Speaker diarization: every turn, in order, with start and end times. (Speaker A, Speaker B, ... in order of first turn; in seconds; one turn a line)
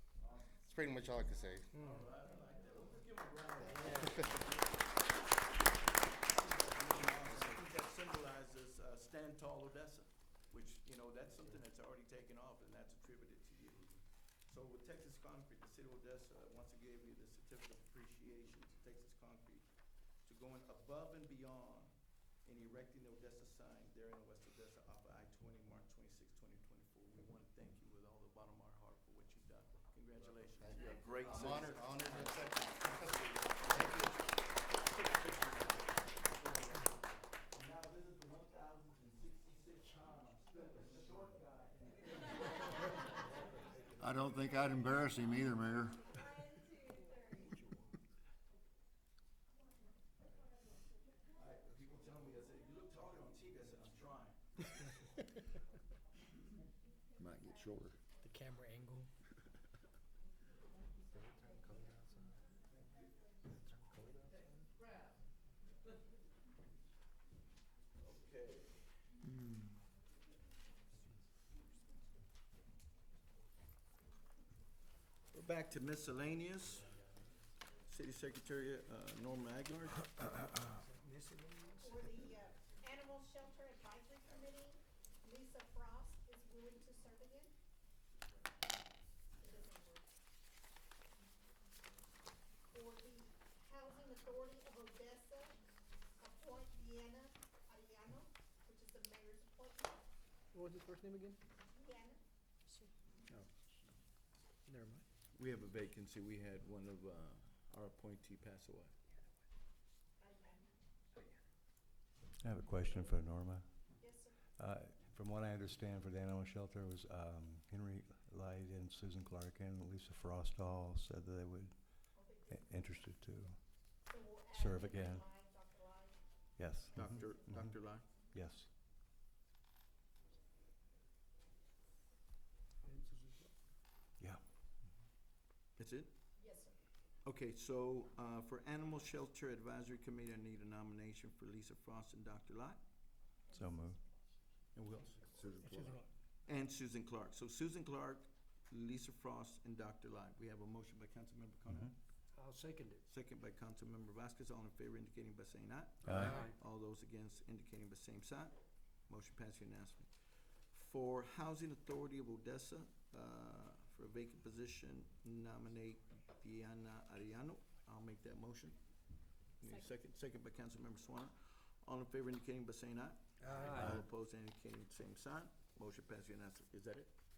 Speaker A: 0.2-0.6
Speaker B: 0.5-1.8
Speaker C: 1.7-2.0
Speaker A: 1.8-4.9
Speaker B: 3.6-4.3
Speaker C: 3.8-4.2
Speaker A: 6.3-19.7
Speaker A: 20.2-43.1
Speaker B: 30.6-33.9
Speaker D: 44.0-46.0
Speaker A: 51.3-54.6
Speaker D: 57.2-58.0
Speaker C: 58.2-59.1
Speaker D: 61.5-61.8
Speaker A: 68.0-68.8
Speaker D: 69.2-69.7
Speaker A: 75.3-77.0
Speaker A: 77.9-80.3
Speaker C: 80.7-82.0
Speaker E: 81.8-87.5
Speaker E: 89.4-90.1
Speaker E: 92.7-95.6
Speaker E: 96.2-100.0
Speaker C: 100.5-101.4
Speaker E: 101.7-102.2
Speaker C: 104.7-105.0
Speaker A: 105.3-108.9
Speaker E: 110.2-110.7
Speaker F: 112.4-113.9
Speaker E: 114.0-114.4
Speaker F: 114.6-125.2
Speaker E: 122.1-123.0
Speaker E: 124.0-126.2
Speaker F: 126.6-127.8
Speaker E: 126.9-127.5
Speaker A: 126.9-128.0
Speaker F: 128.3-128.7
Speaker C: 132.8-133.5
Speaker A: 135.8-136.1
Speaker E: 136.4-136.7
Speaker A: 137.2-142.8
Speaker F: 143.5-144.0
Speaker E: 143.5-143.9
Speaker A: 144.7-145.2
Speaker D: 145.2-146.0
Speaker C: 145.6-146.1
Speaker A: 146.4-151.9
Speaker C: 152.3-153.0
Speaker A: 153.1-158.6
Speaker F: 156.0-156.4
Speaker C: 156.1-156.5
Speaker A: 159.1-160.1
Speaker A: 160.7-168.8
Speaker A: 169.6-177.1
Speaker C: 173.4-173.9